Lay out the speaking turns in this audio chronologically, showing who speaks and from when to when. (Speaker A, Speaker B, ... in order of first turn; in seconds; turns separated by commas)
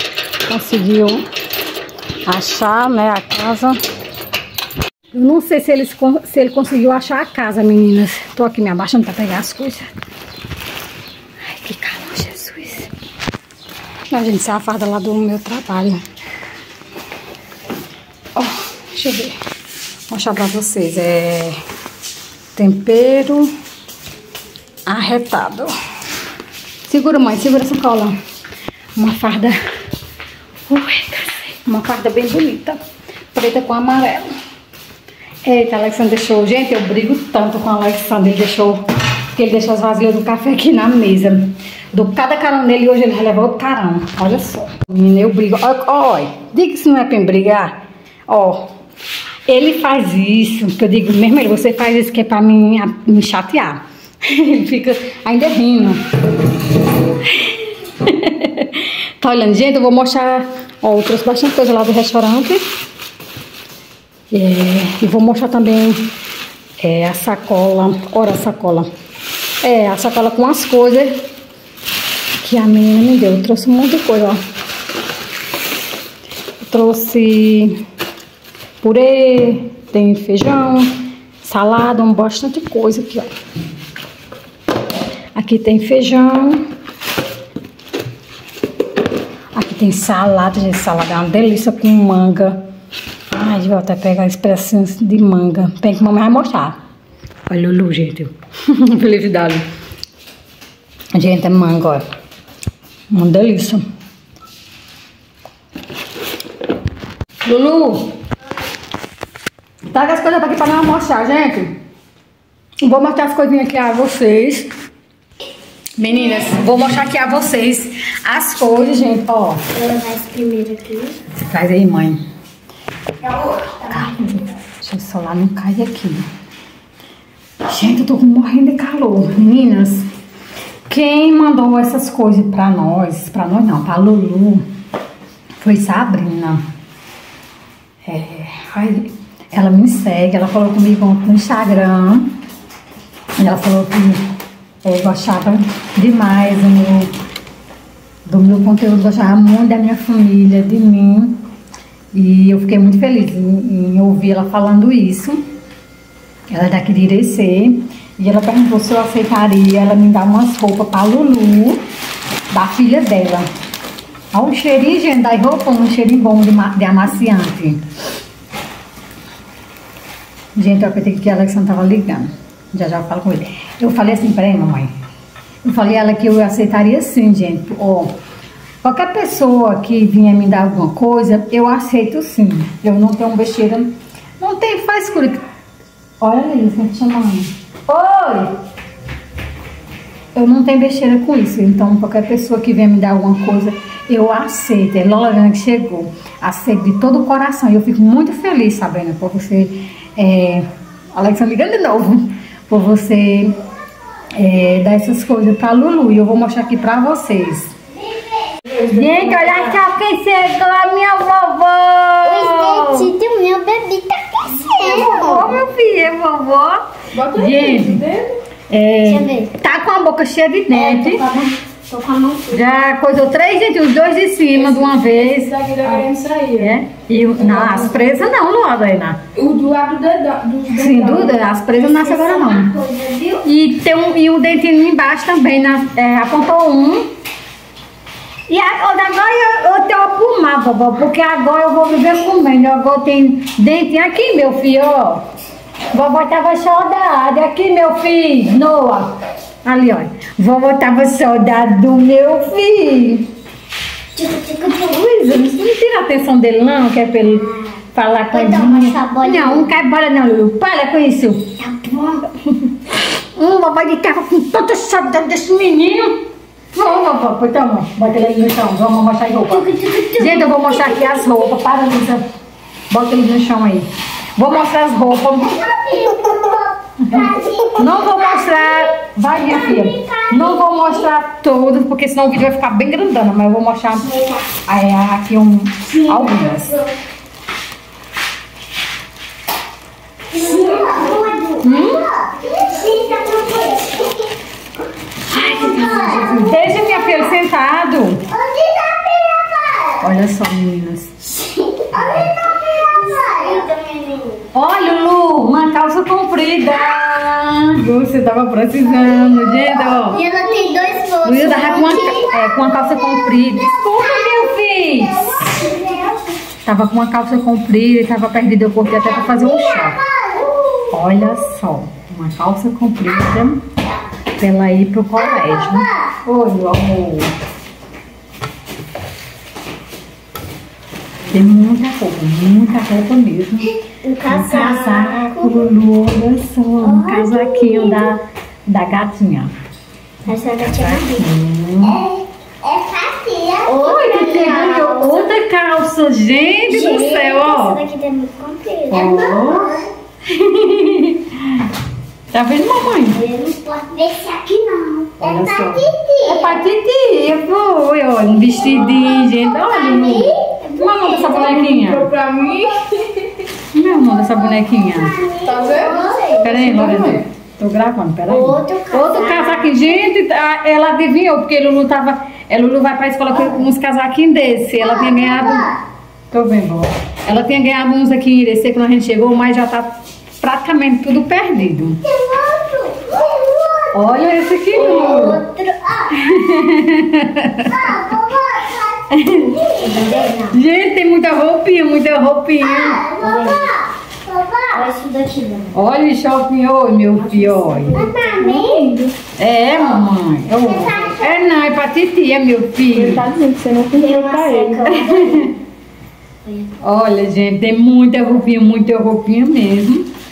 Speaker A: 0.5-1.2, Speaker A: 2.3-3.8, Speaker A: 5.1-9.9, Speaker A: 11.4-12.9, Speaker A: 14.1-16.0, Speaker A: 18.4-19.4, Speaker A: 20.1-21.6, Speaker A: 22.6-23.5, Speaker A: 24.9-25.7, Speaker A: 26.9-28.1, Speaker A: 29.0-29.6, Speaker A: 30.7-32.8, Speaker A: 33.3-34.3, Speaker A: 35.4-38.8, Speaker A: 39.3-47.7, Speaker A: 48.3-48.7, Speaker A: 49.5-56.0, Speaker A: 57.2-62.6, Speaker A: 64.3-66.1, Speaker A: 66.8-68.9, Speaker A: 69.6-71.2, Speaker A: 72.4-74.4, Speaker A: 76.6-77.8, Speaker A: 78.8-83.3, Speaker A: 85.3-86.6, Speaker A: 89.5-92.6, Speaker A: 93.3-96.8, Speaker A: 97.5-99.6, Speaker A: 101.1-102.0, Speaker A: 103.1-103.8, Speaker A: 107.4-108.1, Speaker A: 109.9-111.8, Speaker A: 112.8-114.7, Speaker A: 116.0-119.6, Speaker B: 119.7-121.2, Speaker A: 121.3-122.2, Speaker B: 123.3-124.1, Speaker A: 123.6-126.3, Speaker A: 127.7-130.1, Speaker A: 130.9-134.7, Speaker A: 135.6-136.6, Speaker A: 138.1-142.3, Speaker A: 143.4-144.2, Speaker A: 144.8-147.1, Speaker A: 148.3-151.4, Speaker A: 152.1-155.4, Speaker A: 156.5-161.8, Speaker A: 162.5-163.5, Speaker A: 164.3-167.8, Speaker A: 170.6-174.9, Speaker A: 175.6-178.1, Speaker A: 178.8-185.4, Speaker A: 186.2-188.5, Speaker A: 190.3-203.5, Speaker A: 204.3-207.7, Speaker C: 208.6-209.8, Speaker A: 208.9-213.1, Speaker B: 212.2-215.6, Speaker A: 214.7-218.0, Speaker C: 217.1-218.3, Speaker A: 218.7-221.2, Speaker B: 219.0-219.5, Speaker B: 220.7-222.6, Speaker A: 222.5-225.5, Speaker C: 224.5-228.0, Speaker A: 226.6-229.2, Speaker C: 229.3-231.4, Speaker A: 230.7-232.7, Speaker B: 231.7-233.4, Speaker A: 233.4-237.1, Speaker A: 238.5-245.2, Speaker A: 245.9-253.3, Speaker B: 254.2-255.0, Speaker A: 254.8-261.6, Speaker B: 258.3-259.7, Speaker B: 261.6-262.2, Speaker A: 263.3-272.2, Speaker B: 269.5-271.5, Speaker A: 272.9-275.6, Speaker B: 275.5-278.9, Speaker A: 277.0-284.1, Speaker B: 279.4-281.0, Speaker A: 284.6-286.7, Speaker B: 285.9-286.9, Speaker B: 290.3-294.3, Speaker A: 291.6-292.0, Speaker A: 295.3-298.2, Speaker B: 295.3-296.8, Speaker B: 298.3-300.0, Speaker A: 300.0-301.1, Speaker B: 301.5-304.4, Speaker A: 301.9-302.3, Speaker A: 304.5-310.2, Speaker B: 309.9-312.4, Speaker A: 311.2-315.5, Speaker B: 314.0-314.4, Speaker B: 315.0-316.2, Speaker A: 316.6-320.0, Speaker B: 318.9-320.9, Speaker A: 320.9-323.6, Speaker A: 324.4-327.3, Speaker B: 325.1-326.1, Speaker A: 331.3-339.5, Speaker B: 334.0-335.6, Speaker B: 336.8-338.1, Speaker B: 340.2-341.3, Speaker A: 340.6-342.0, Speaker B: 341.8-345.3, Speaker A: 343.7-347.8, Speaker B: 346.6-349.9, Speaker A: 348.9-351.7, Speaker A: 352.3-353.2, Speaker B: 352.9-356.6, Speaker A: 355.2-362.1, Speaker B: 358.3-361.6, Speaker C: 361.2-363.4, Speaker A: 363.7-365.2, Speaker B: 364.6-366.4, Speaker C: 365.4-367.2, Speaker A: 366.4-375.7, Speaker B: 368.3-370.0, Speaker B: 373.3-373.6, Speaker B: 374.8-375.8, Speaker A: 376.3-382.0, Speaker B: 382.0-383.9, Speaker A: 383.9-385.4, Speaker B: 384.7-386.3, Speaker A: 386.1-388.1, Speaker B: 387.7-390.5, Speaker A: 389.1-389.7, Speaker A: 390.5-393.1, Speaker B: 392.6-395.7, Speaker A: 395.7-397.9, Speaker C: 397.2-399.1, Speaker B: 397.8-398.9, Speaker A: 399.4-403.2, Speaker B: 399.8-400.1, Speaker B: 400.6-401.4, Speaker C: 402.9-405.0, Speaker B: 403.9-405.5, Speaker A: 404.9-405.5, Speaker A: 406.8-410.1